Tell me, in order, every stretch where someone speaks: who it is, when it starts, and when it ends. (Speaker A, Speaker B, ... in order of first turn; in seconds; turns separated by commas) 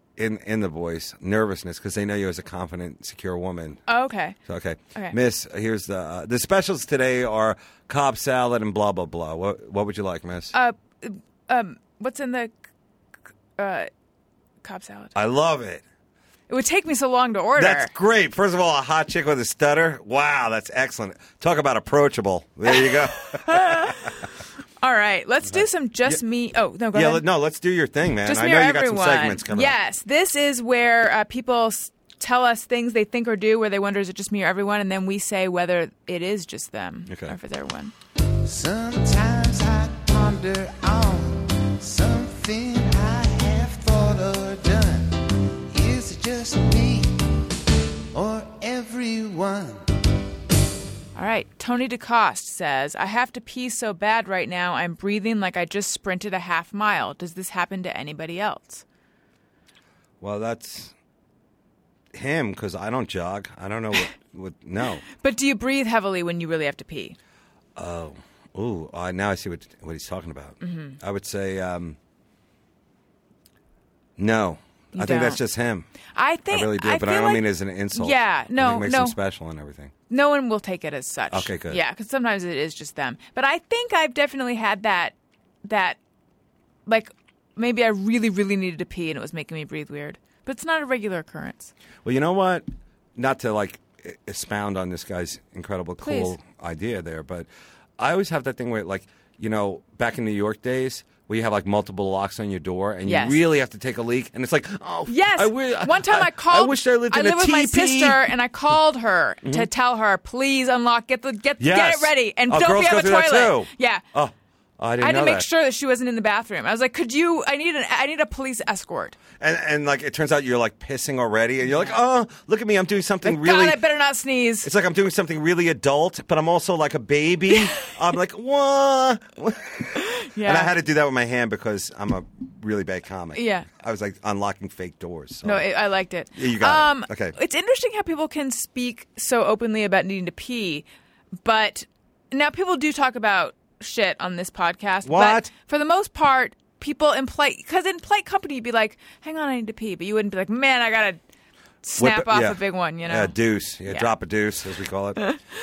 Speaker A: 0.2-3.8, Speaker B: 3.9-4.4, Speaker A: 4.5-10.5, Speaker B: 10.5-12.5, Speaker B: 13.6-13.9, Speaker B: 14.6-15.2, Speaker A: 15.2-15.8, Speaker B: 16.5-17.9, Speaker A: 17.6-24.1, Speaker B: 22.7-24.2, Speaker B: 24.8-27.2, Speaker A: 25.5-26.2, Speaker A: 26.9-29.8, Speaker B: 28.2-37.9, Speaker A: 37.1-37.4, Speaker C: 38.4-47.4, Speaker C: 48.1-49.9, Speaker B: 51.1-58.8, Speaker A: 60.2-60.9, Speaker A: 62.1-65.0, Speaker B: 65.1-67.2, Speaker A: 67.8-72.0, Speaker B: 70.6-71.0, Speaker A: 74.2-75.9, Speaker B: 74.9-75.4, Speaker B: 76.2-79.2, Speaker A: 76.5-79.9, Speaker B: 80.1-86.0, Speaker A: 81.3-81.8, Speaker B: 86.9-91.7, Speaker A: 92.0-92.7, Speaker A: 93.2-108.2, Speaker B: 96.0-96.4, Speaker B: 103.0-103.4, Speaker B: 105.1-114.0, Speaker A: 111.6-115.5, Speaker B: 115.0-119.2, Speaker A: 119.4-123.8, Speaker B: 121.7-122.0, Speaker B: 123.2-124.7, Speaker A: 124.6-135.7, Speaker B: 130.0-130.7, Speaker B: 133.3-133.7, Speaker B: 135.4-140.9, Speaker A: 136.4-137.3, Speaker B: 141.4-151.2, Speaker A: 145.1-145.5, Speaker B: 151.8-153.3, Speaker A: 152.0-155.2